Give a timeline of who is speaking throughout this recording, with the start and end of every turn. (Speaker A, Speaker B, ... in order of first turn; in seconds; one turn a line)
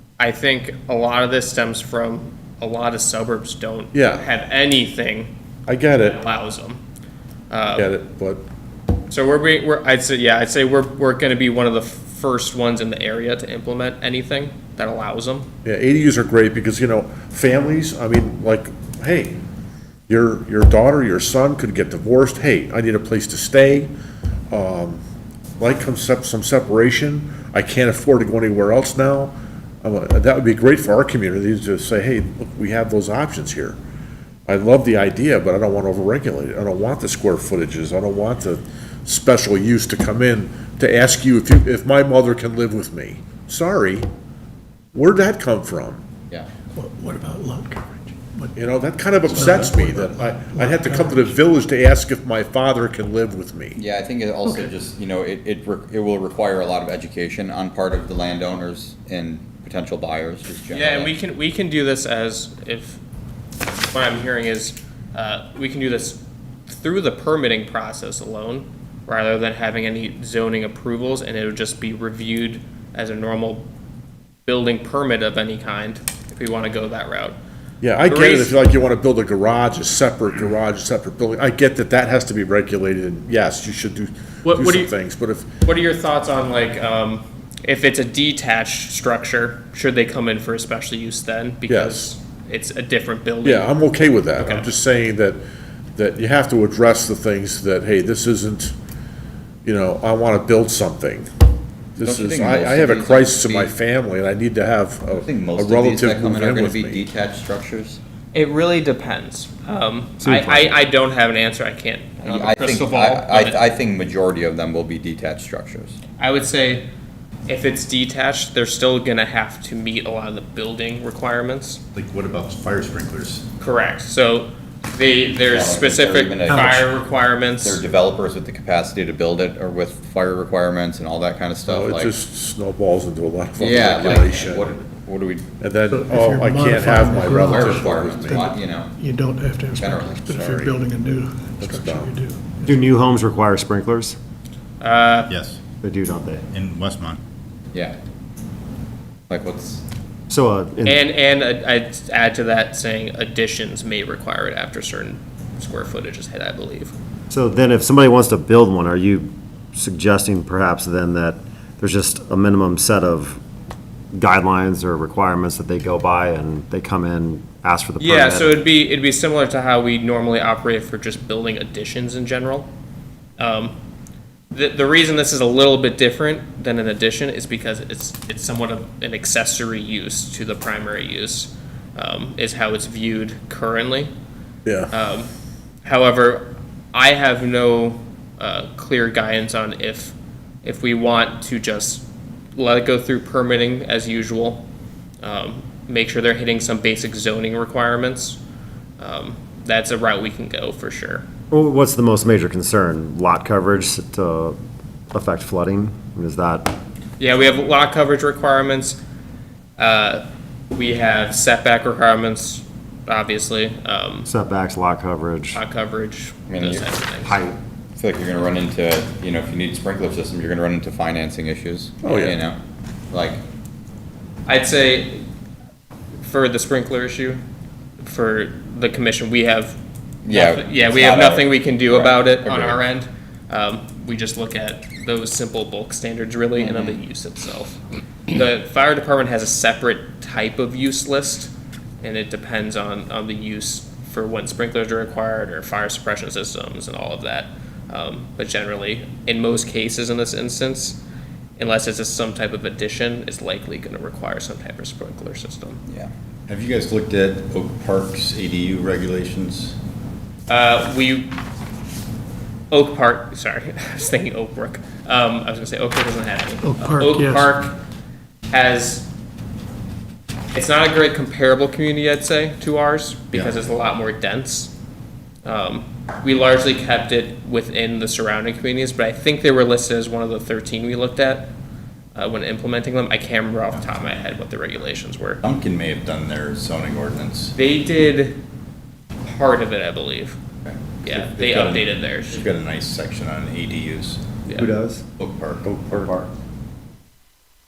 Speaker A: 0.2-5.3
Speaker B: 3.9-4.3
Speaker B: 5.7-6.2
Speaker A: 6.0-6.8
Speaker A: 7.5-7.9
Speaker B: 7.8-8.4
Speaker A: 9.1-15.5
Speaker B: 15.6-19.4
Speaker B: 20.1-23.9
Speaker B: 24.5-25.0
Speaker B: 25.6-33.8
Speaker B: 34.5-44.1
Speaker B: 44.9-46.0
Speaker C: 46.8-48.6
Speaker B: 48.6-53.8
Speaker C: 49.2-51.4
Speaker D: 53.8-61.1
Speaker A: 60.7-63.0
Speaker A: 63.9-73.7
Speaker A: 74.5-77.4
Speaker B: 77.8-85.5
Speaker A: 78.0-78.5
Speaker A: 84.4-84.9
Speaker A: 85.6-93.7
Speaker B: 91.7-92.1
Speaker B: 93.4-95.4
Speaker A: 94.4-94.7
Speaker B: 96.0-98.7
Speaker B: 99.7-101.3
Speaker B: 102.0-107.0
Speaker D: 102.0-103.7
Speaker D: 105.1-108.0
Speaker A: 108.3-113.6
Speaker E: 110.2-110.8
Speaker D: 112.2-116.0
Speaker A: 116.2-116.9
Speaker A: 117.5-121.8
Speaker F: 121.9-123.5
Speaker A: 123.6-127.8
Speaker D: 125.4-126.9
Speaker C: 126.5-126.8
Speaker D: 127.6-132.1
Speaker B: 131.7-134.8
Speaker D: 133.6-135.4
Speaker B: 135.6-138.5
Speaker C: 135.9-142.8
Speaker D: 137.3-138.9
Speaker D: 139.8-140.3
Speaker B: 140.3-140.7
Speaker B: 141.6-142.1
Speaker E: 142.6-144.2
Speaker A: 144.8-145.3
Speaker F: 145.3-145.6
Speaker E: 145.8-146.5
Speaker F: 146.5-147.2
Speaker D: 149.3-149.8
Speaker E: 150.3-151.0
Speaker A: 150.8-156.9
Speaker E: 157.3-163.4
Speaker E: 164.1-168.6
Speaker A: 168.0-172.7
Speaker A: 173.4-173.8
Speaker A: 174.5-184.1
Speaker A: 184.9-185.3
Speaker A: 185.8-194.6
Speaker A: 195.2-198.4
Speaker A: 199.0-201.3
Speaker E: 201.5-204.6
Speaker E: 205.1-206.8
Speaker A: 207.2-209.0
Speaker A: 209.8-214.3
Speaker E: 214.3-215.6
Speaker A: 215.5-217.4
Speaker D: 216.5-216.9
Speaker E: 217.2-217.6
Speaker D: 218.0-222.6
Speaker B: 222.0-222.4
Speaker D: 223.1-223.4
Speaker A: 224.5-225.2
Speaker A: 226.2-227.4
Speaker A: 228.0-229.8
Speaker D: 230.2-232.8
Speaker A: 230.3-251.0
Speaker D: 236.6-237.0
Speaker A: 251.6-255.8
Speaker F: 256.5-259.8
Speaker A: 260.5-261.4
Speaker A: 262.7-267.8
Speaker C: 266.6-267.5
Speaker A: 268.5-269.1
Speaker A: 270.5-274.7
Speaker A: 275.4-281.5
Speaker A: 282.1-285.4
Speaker F: 285.4-287.6
Speaker A: 287.6-288.4
Speaker A: 289.2-290.4
Speaker F: 290.7-294.2
Speaker A: 291.0-292.4
Speaker E: 294.6-295.0
Speaker F: 295.2-296.3